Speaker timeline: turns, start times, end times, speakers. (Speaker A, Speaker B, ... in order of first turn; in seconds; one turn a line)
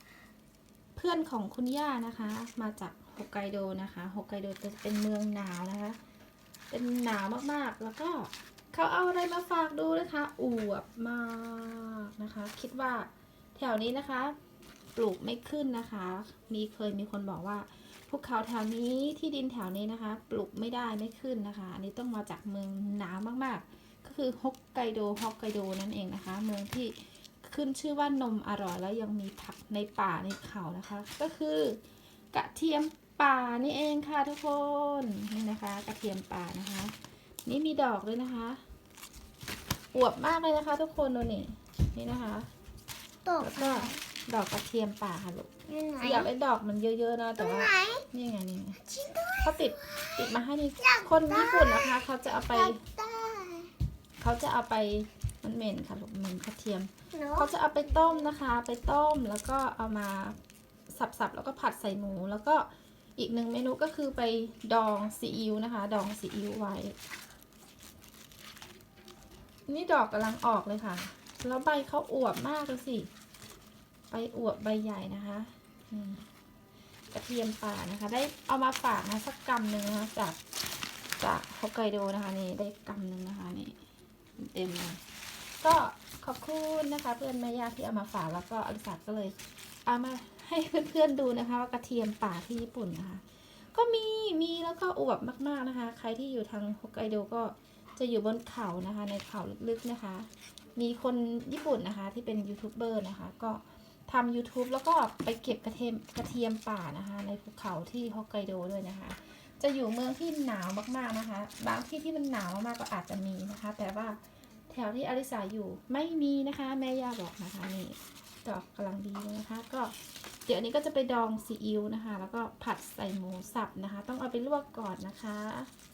Speaker A: 0.9-6.0
Speaker A: 6.7-14.3
Speaker A: 14.9-31.8
Speaker A: 32.3-36.9
Speaker A: 37.4-38.6
Speaker A: 39.9-42.5
Speaker B: 43.2-44.0
Speaker A: 43.4-48.8
Speaker B: 45.7-46.3
Speaker B: 47.4-48.0
Speaker B: 48.8-50.1
Speaker A: 49.4-52.8
Speaker B: 50.8-53.7
Speaker A: 54.2-60.4
Speaker B: 57.1-57.5
Speaker A: 60.9-67.0
Speaker A: 69.7-73.1
Speaker A: 74.1-76.2
Speaker A: 77.1-80.4
Speaker A: 81.2-83.8
Speaker A: 84.4-85.0
Speaker A: 85.6-93.2
Speaker A: 93.7-125.7